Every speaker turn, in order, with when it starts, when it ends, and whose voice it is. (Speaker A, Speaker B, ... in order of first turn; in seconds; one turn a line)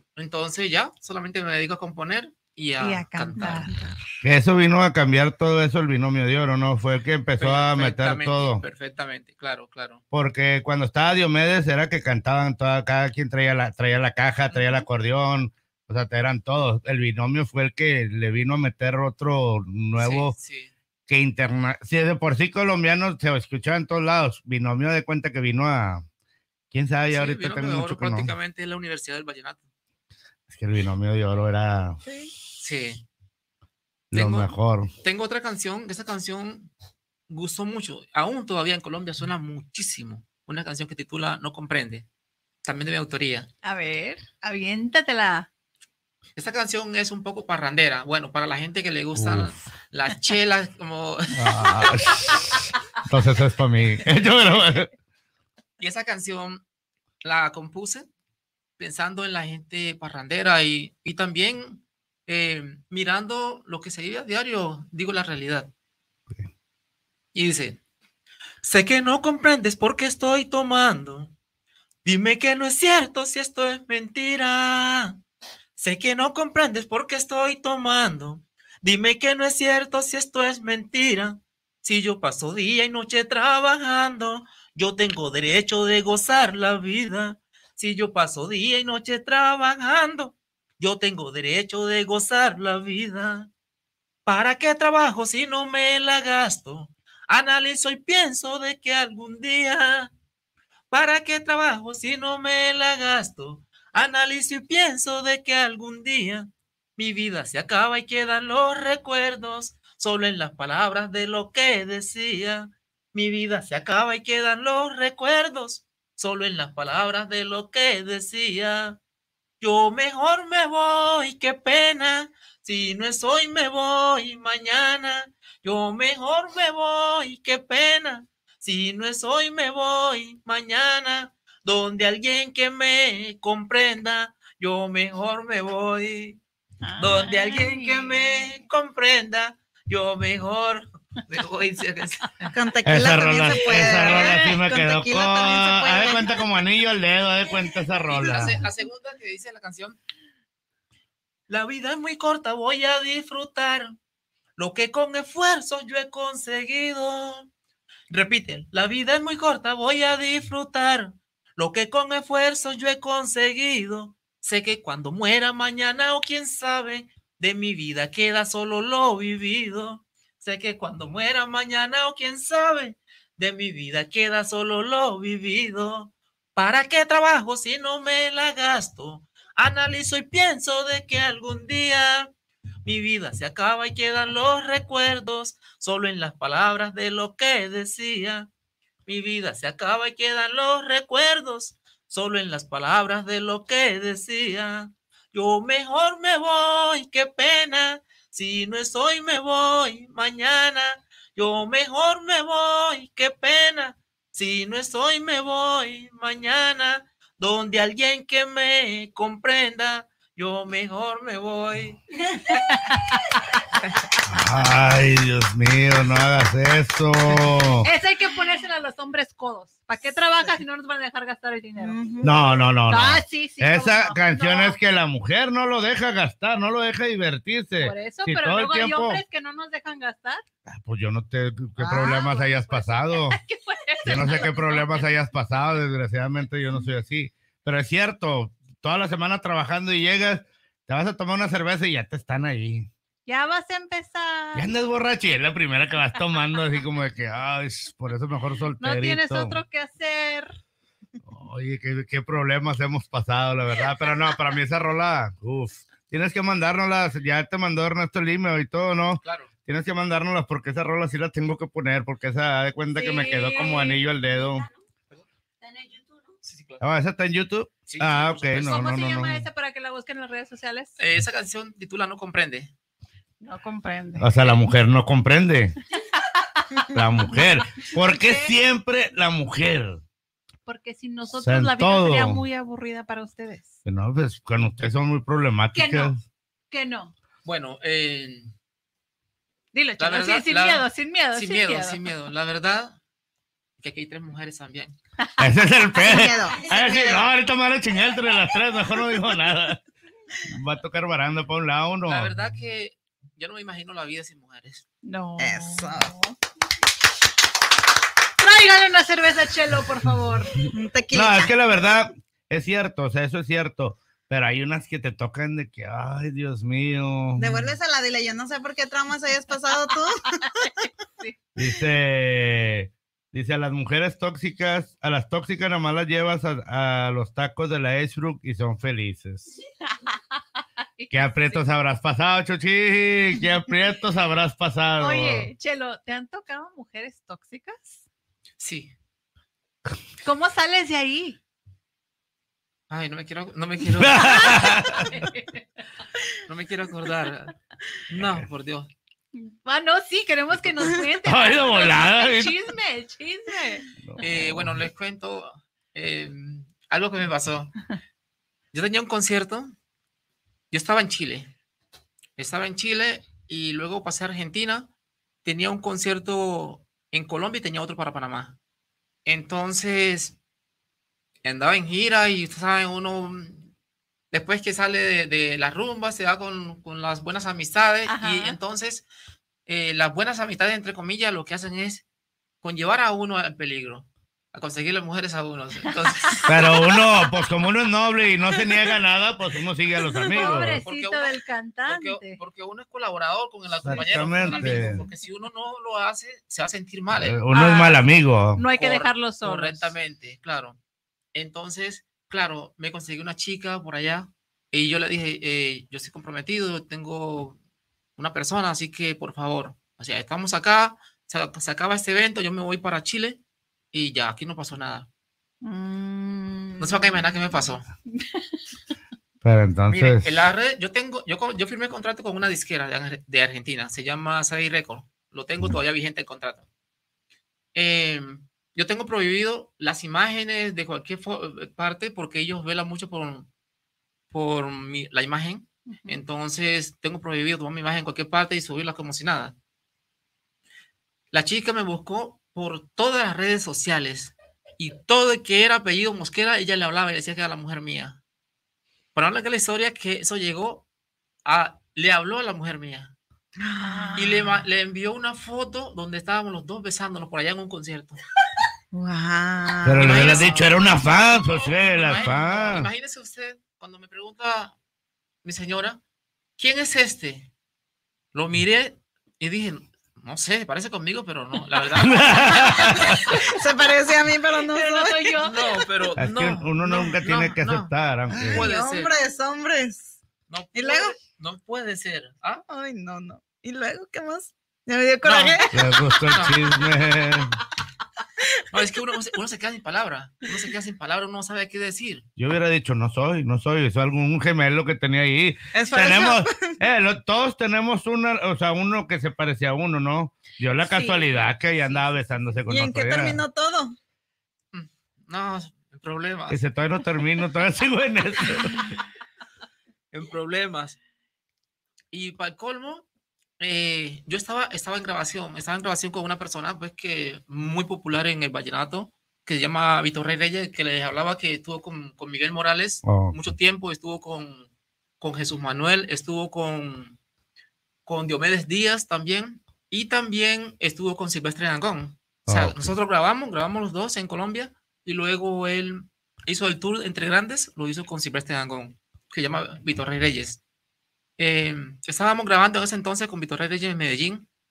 Speaker A: 0.2-3.7
Speaker B: 2.8-4.0
Speaker C: 3.4-3.7
Speaker D: 4.2-8.6
Speaker A: 7.4-10.0
Speaker D: 10.1-20.3
Speaker A: 14.5-14.9
Speaker A: 20.0-20.7
Speaker D: 21.1-26.1
Speaker D: 26.7-28.3
Speaker A: 27.1-29.7
Speaker D: 30.5-32.0
Speaker C: 32.0-32.3
Speaker A: 32.6-33.0
Speaker D: 34.1-34.9
Speaker A: 34.1-36.7
Speaker A: 37.3-42.0
Speaker A: 42.6-43.5
Speaker B: 43.6-45.5
Speaker A: 46.4-52.1
Speaker D: 49.1-49.6
Speaker D: 51.4-54.9
Speaker A: 55.8-56.6
Speaker A: 57.2-58.1
Speaker A: 58.8-65.7
Speaker A: 67.3-67.8
Speaker A: 68.6-71.3
Speaker A: 72.0-75.2
Speaker A: 75.8-93.5
Speaker A: 94.3-100.1
Speaker A: 100.9-119.0
Speaker A: 119.6-136.4
Speaker B: 136.8-138.1
Speaker A: 137.0-142.5
Speaker C: 142.5-146.3
Speaker D: 142.8-148.6
Speaker B: 143.7-144.6
Speaker A: 148.1-150.0
Speaker A: 151.5-153.9
Speaker A: 154.6-157.5
Speaker A: 158.1-182.3
Speaker A: 182.8-188.5
Speaker A: 189.1-212.0
Speaker B: 212.5-213.2
Speaker D: 214.2-217.9
Speaker A: 217.3-217.6
Speaker B: 217.8-222.0
Speaker C: 221.8-222.7
Speaker D: 222.2-229.2
Speaker B: 222.9-224.8
Speaker B: 227.8-230.4
Speaker D: 230.7-233.4
Speaker C: 231.8-232.3
Speaker B: 232.0-235.1
Speaker D: 234.1-242.9
Speaker B: 243.3-244.7
Speaker D: 244.6-249.6
Speaker B: 248.8-250.6
Speaker D: 251.2-264.7
Speaker A: 259.2-259.5
Speaker B: 262.9-264.0
Speaker A: 266.4-266.8
Speaker D: 266.8-269.5
Speaker A: 267.9-269.0
Speaker B: 268.6-271.0
Speaker A: 271.0-272.7
Speaker B: 273.4-274.3
Speaker D: 274.2-275.8
Speaker B: 276.3-276.9
Speaker D: 276.9-280.0
Speaker B: 277.9-278.6
Speaker B: 280.7-283.7
Speaker D: 281.4-282.4
Speaker D: 283.9-286.2
Speaker B: 285.7-286.1
Speaker B: 286.7-287.1
Speaker A: 287.4-288.5
Speaker B: 289.7-292.0
Speaker A: 290.0-293.0
Speaker A: 293.8-295.0
Speaker B: 295.2-295.5
Speaker D: 295.4-299.8
Speaker C: 296.0-297.3
Speaker D: 300.5-302.4
Speaker A: 302.1-304.9
Speaker B: 305.0-306.3
Speaker C: 305.4-306.2
Speaker B: 308.4-310.6
Speaker C: 310.6-311.5
Speaker D: 311.1-317.8
Speaker C: 317.4-320.6
Speaker B: 320.6-321.4
Speaker D: 321.6-329.5
Speaker B: 329.9-330.4
Speaker B: 331.0-331.6
Speaker D: 331.1-335.5
Speaker B: 335.0-338.1
Speaker A: 338.6-338.9
Speaker B: 340.2-341.4
Speaker A: 342.9-345.0
Speaker D: 344.0-345.2
Speaker B: 344.2-345.6
Speaker A: 346.5-347.6
Speaker A: 348.1-348.9
Speaker B: 349.3-353.9
Speaker D: 351.2-352.5
Speaker D: 354.0-354.8
Speaker A: 354.2-357.8
Speaker A: 358.7-359.7
Speaker A: 360.7-361.5
Speaker A: 362.4-364.9
Speaker A: 365.4-368.6
Speaker A: 369.2-370.4
Speaker A: 371.4-373.7
Speaker A: 374.3-379.1
Speaker B: 378.1-378.6
Speaker A: 379.7-382.0
Speaker A: 382.6-386.6
Speaker B: 385.9-386.4
Speaker D: 386.5-390.8
Speaker B: 390.1-392.4
Speaker A: 390.3-391.4
Speaker A: 391.9-397.4
Speaker D: 393.8-395.0
Speaker B: 393.9-395.2
Speaker D: 397.1-398.6
Speaker B: 397.5-398.0
Speaker B: 398.6-399.9
Speaker A: 398.8-400.8
Speaker A: 401.3-407.6
Speaker A: 408.2-413.4
Speaker A: 413.9-415.1
Speaker B: 415.6-417.0
Speaker A: 416.8-417.9
Speaker B: 418.1-418.6
Speaker D: 419.4-420.3
Speaker A: 419.9-426.7
Speaker A: 427.7-433.5
Speaker A: 434.3-439.6
Speaker B: 435.9-436.2
Speaker A: 441.3-448.2
Speaker A: 449.1-450.9
Speaker A: 451.4-453.1
Speaker C: 453.6-454.6
Speaker B: 453.8-454.4
Speaker A: 454.2-458.2
Speaker C: 458.9-460.6
Speaker D: 459.9-462.9
Speaker A: 460.0-464.8
Speaker A: 465.4-466.0
Speaker A: 466.6-467.5
Speaker A: 468.3-473.4
Speaker D: 472.0-473.3
Speaker C: 473.0-475.4
Speaker B: 474.6-475.8
Speaker A: 475.4-479.1
Speaker D: 476.2-478.7
Speaker C: 477.0-477.6
Speaker C: 478.3-480.2
Speaker A: 480.5-482.6
Speaker C: 480.8-481.2
Speaker C: 482.7-486.1
Speaker D: 485.3-487.6
Speaker A: 486.2-486.8
Speaker A: 488.7-492.2
Speaker D: 492.4-503.4
Speaker C: 495.7-496.8
Speaker B: 500.8-502.6
Speaker C: 502.7-504.0
Speaker A: 504.7-506.6
Speaker D: 506.5-509.0
Speaker A: 510.1-511.0
Speaker A: 512.1-513.1
Speaker A: 513.6-527.2
Speaker D: 523.0-523.4
Speaker A: 528.1-540.6
Speaker D: 532.5-532.8
Speaker A: 541.4-544.5